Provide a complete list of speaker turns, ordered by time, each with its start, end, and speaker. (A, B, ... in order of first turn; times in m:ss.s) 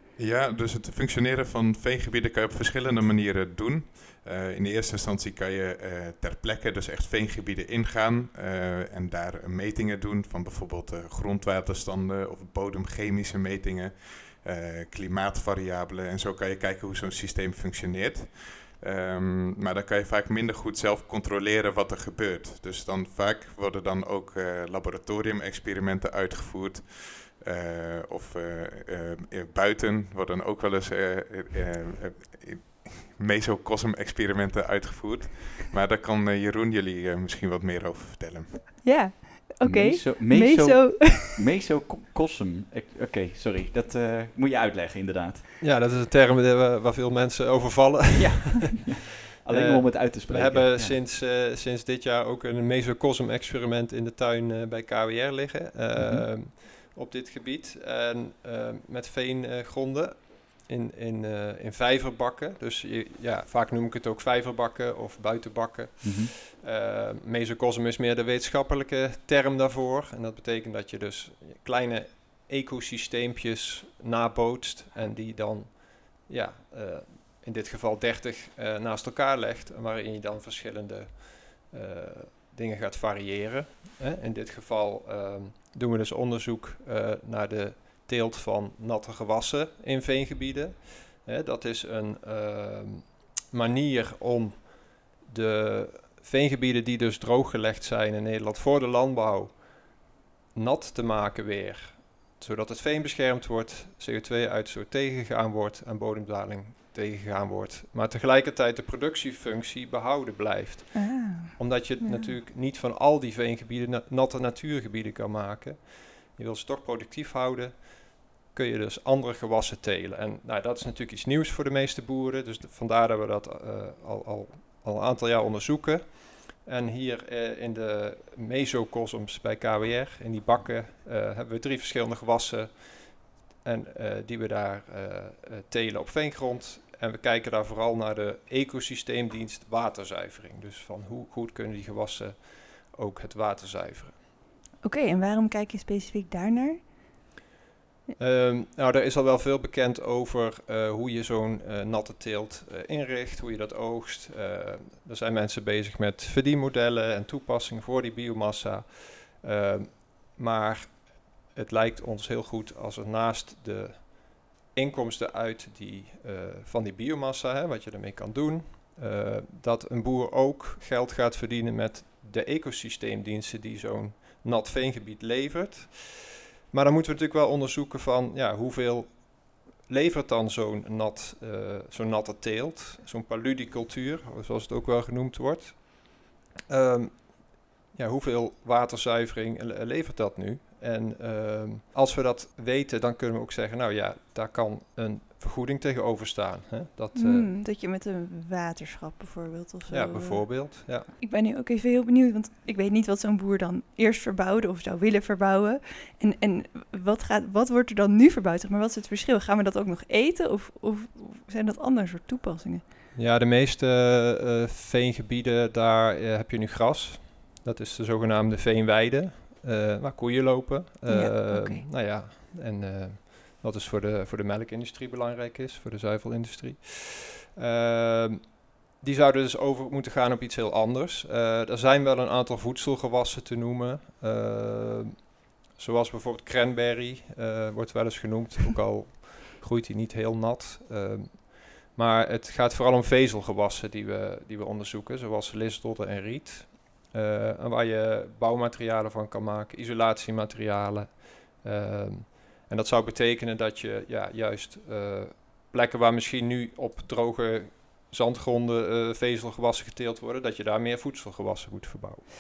0:00.2-0:38.7 A
0:38.8-0:41.4 B
0:39.6-0:45.6 C
0:45.6-0:48.9 D
0:48.2-0:51.0 C
0:49.4-2:24.2 D
0:55.9-0:56.2 C
1:06.0-1:06.3 C
1:50.9-1:52.3 B
2:24.8-2:27.2 B
2:28.2-3:17.5 D
3:17.2-3:32.8 B
3:19.9-3:21.1 D
3:33.1-4:22.2 D
3:41.1-3:41.9 B